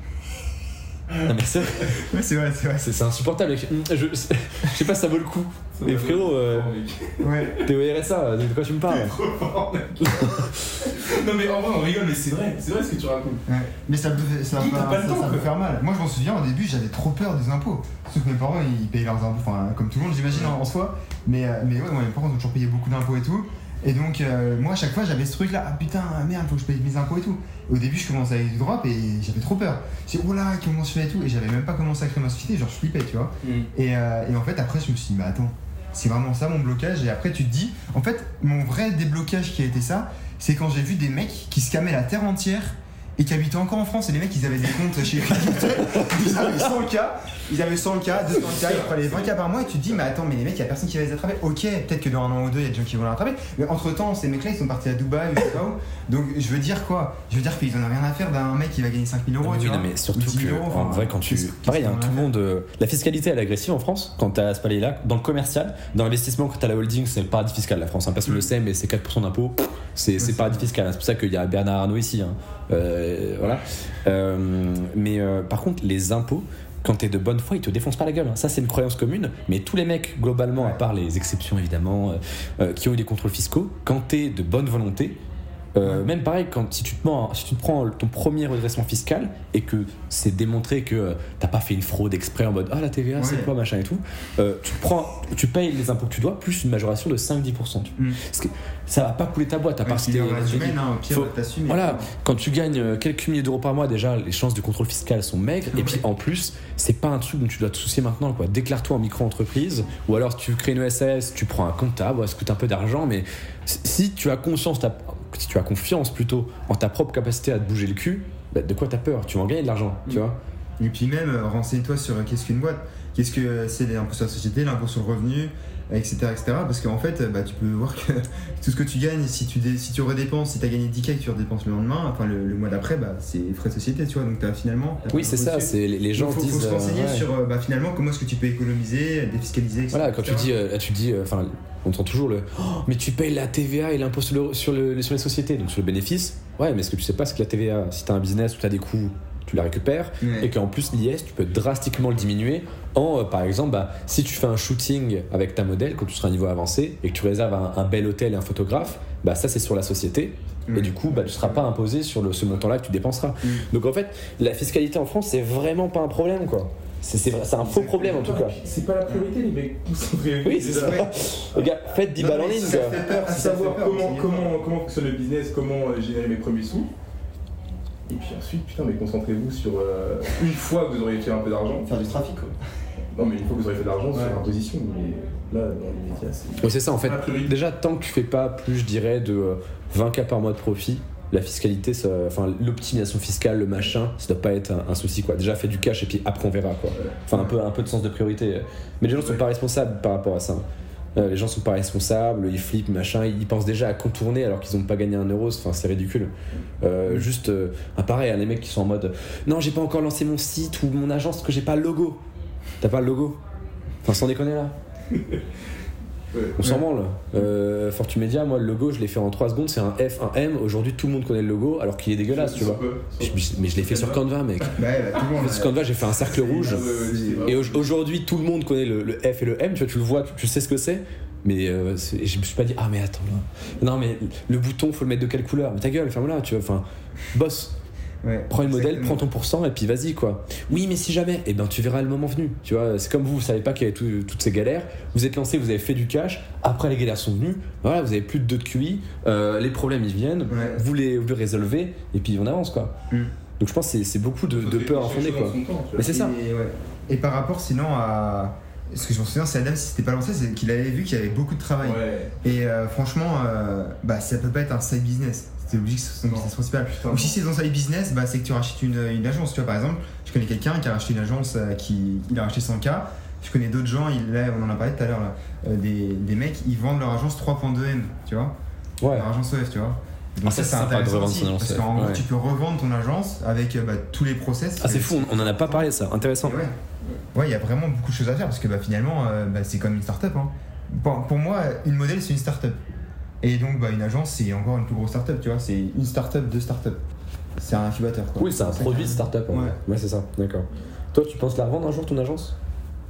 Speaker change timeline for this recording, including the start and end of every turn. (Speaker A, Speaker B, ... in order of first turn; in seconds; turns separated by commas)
Speaker A: 1.1-3.1, Speaker B: 1.2-2.1, Speaker B: 2.8-6.7, Speaker C: 5.7-7.6, Speaker A: 7.2-7.6, Speaker B: 7.6-9.2, Speaker C: 8.9-10.3, Speaker B: 10.1-10.5, Speaker C: 10.8-13.4, Speaker A: 13.5-62.3, Speaker C: 14.5-15.5, Speaker B: 45.9-46.7, Speaker C: 48.3-49.2, Speaker B: 59.4-85.2, Speaker A: 70.2-70.7, Speaker B: 85.7-120.4, Speaker A: 93.2-93.5, Speaker A: 99.8-102.1, Speaker A: 105.7-106.0, Speaker A: 120.8-140.5, Speaker B: 135.1-137.3, Speaker B: 139.9-168.6, Speaker A: 150.2-150.5, Speaker A: 160.7-161.6, Speaker A: 167.6-167.9, Speaker C: 167.9-171.1, Speaker B: 170.4-173.0, Speaker A: 170.7-171.1, Speaker A: 172.2-174.5, Speaker C: 173.0-176.9, Speaker C: 178.1-181.9, Speaker A: 181.8-182.5, Speaker C: 183.1-187.5, Speaker A: 184.1-184.4, Speaker B: 186.6-200.6, Speaker C: 197.0-197.5, Speaker B: 201.2-212.2, Speaker B: 212.8-213.4, Speaker B: 214.0-214.7, Speaker C: 215.1-215.4, Speaker C: 216.3-216.6, Speaker B: 216.6-224.7, Speaker C: 222.3-224.2, Speaker A: 224.7-227.4, Speaker B: 225.3-226.9, Speaker C: 226.2-227.8, Speaker B: 227.4-237.7, Speaker A: 238.2-239.3, Speaker B: 238.5-252.9, Speaker A: 250.5-250.8, Speaker B: 253.6-256.3, Speaker C: 254.5-256.2, Speaker A: 256.1-278.5, Speaker C: 261.8-262.3, Speaker C: 266.3-267.4, Speaker B: 279.0-279.3, Speaker A: 279.0-285.9, Speaker B: 280.4-282.2, Speaker B: 284.8-286.6, Speaker A: 286.4-286.8, Speaker A: 287.3-292.8, Speaker A: 293.4-297.0, Speaker A: 297.6-299.8, Speaker B: 298.4-302.5